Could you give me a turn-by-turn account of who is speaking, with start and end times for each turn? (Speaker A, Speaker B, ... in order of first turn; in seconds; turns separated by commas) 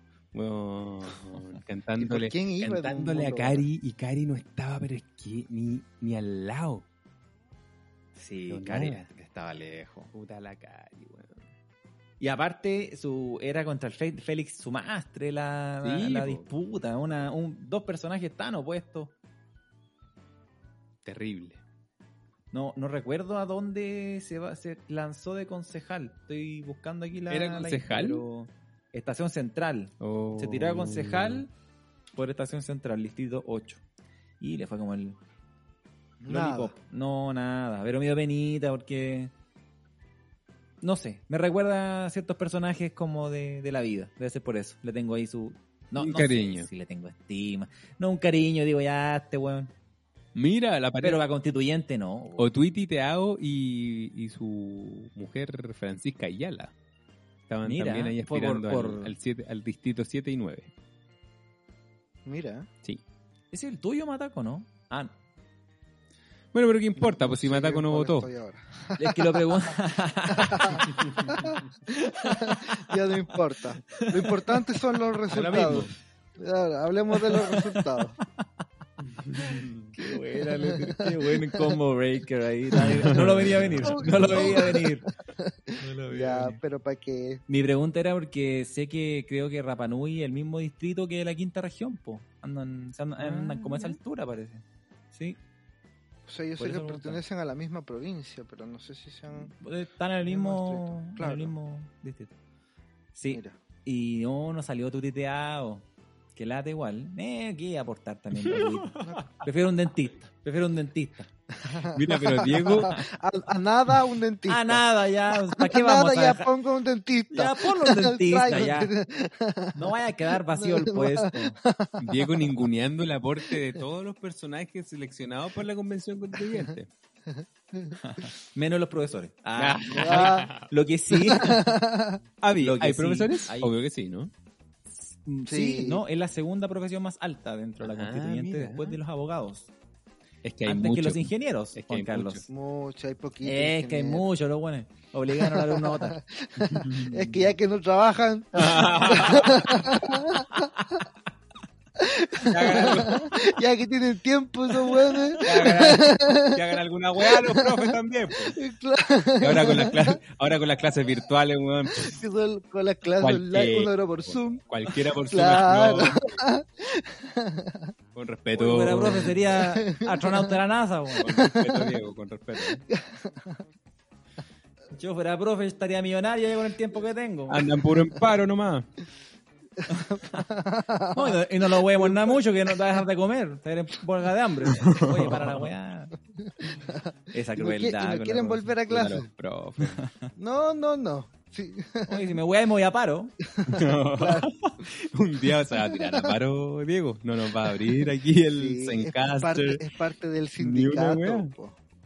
Speaker A: 0.3-6.8, Speaker B: 2.0-3.7, Speaker C: 8.2-10.1, Speaker A: 8.5-9.0, Speaker A: 10.1-11.4, Speaker C: 12.2-19.1, Speaker A: 15.8-16.5, Speaker A: 21.0-21.6, Speaker C: 22.5-31.5, Speaker A: 27.3-28.2, Speaker A: 30.0-31.4, Speaker C: 32.1-33.8, Speaker C: 34.4-35.2, Speaker B: 36.2-36.7, Speaker C: 36.3-39.3, Speaker C: 40.8-49.7, Speaker A: 46.0-46.7, Speaker A: 50.3-51.2, Speaker C: 51.0-52.5, Speaker A: 52.4-56.7, Speaker A: 57.5-60.7, Speaker C: 57.6-59.1, Speaker B: 62.2-62.7, Speaker C: 63.5-65.1, Speaker A: 66.5-68.3, Speaker B: 67.0-69.7, Speaker C: 69.0-73.2, Speaker B: 70.3-71.6, Speaker A: 70.9-71.4, Speaker B: 72.2-78.2, Speaker C: 73.9-74.5, Speaker A: 75.3-75.9, Speaker C: 77.1-77.8, Speaker A: 79.2-79.9, Speaker C: 79.4-85.1, Speaker B: 80.3-81.8, Speaker A: 82.9-84.6, Speaker B: 83.8-87.4, Speaker C: 85.8-86.6, Speaker C: 87.5-95.4, Speaker A: 93.2-93.9, Speaker B: 96.2-99.5, Speaker C: 96.6-97.2, Speaker C: 99.3-102.3, Speaker B: 100.2-101.5, Speaker C: 103.1-105.8, Speaker B: 103.3-103.6, Speaker C: 106.3-111.3, Speaker A: 108.5-109.2, Speaker B: 109.0-109.2, Speaker B: 111.6-122.5, Speaker A: 111.8-112.9, Speaker C: 112.6-113.0, Speaker C: 114.5-116.5, Speaker C: 117.3-118.9, Speaker C: 119.7-121.6, Speaker A: 122.0-126.9, Speaker B: 127.3-128.0, Speaker C: 128.0-131.7, Speaker A: 129.6-130.7, Speaker B: 129.9-130.5, Speaker B: 131.1-132.2, Speaker A: 132.4-134.3, Speaker C: 132.5-133.7, Speaker C: 135.0-139.7, Speaker B: 135.4-136.0, Speaker A: 137.8-139.0, Speaker A: 140.4-142.5, Speaker C: 140.6-142.5, Speaker B: 142.5-144.2, Speaker C: 143.4-146.2, Speaker B: 145.3-151.0, Speaker A: 146.7-147.1, Speaker A: 148.5-149.8, Speaker B: 151.9-156.6, Speaker A: 152.4-153.5, Speaker A: 155.4-158.6, Speaker B: 157.2-158.0, Speaker B: 158.5-160.2, Speaker A: 159.4-162.2, Speaker B: 161.9-167.9, Speaker A: 163.2-166.2, Speaker A: 168.1-169.5, Speaker C: 168.5-171.3, Speaker B: 169.6-170.6, Speaker B: 171.2-171.9, Speaker A: 171.2-172.8, Speaker B: 172.7-173.6, Speaker C: 174.9-177.7, Speaker A: 177.5-178.9, Speaker B: 179.8-182.4, Speaker C: 179.9-180.2, Speaker C: 181.1-186.1, Speaker A: 184.8-185.5, Speaker B: 186.6-189.3, Speaker C: 187.3-188.7, Speaker A: 188.8-190.0, Speaker C: 189.8-190.3, Speaker B: 190.3-192.4, Speaker C: 192.1-193.3, Speaker B: 193.5-194.5, Speaker A: 193.7-199.8, Speaker B: 195.9-196.3, Speaker B: 198.5-201.8, Speaker A: 200.6-201.5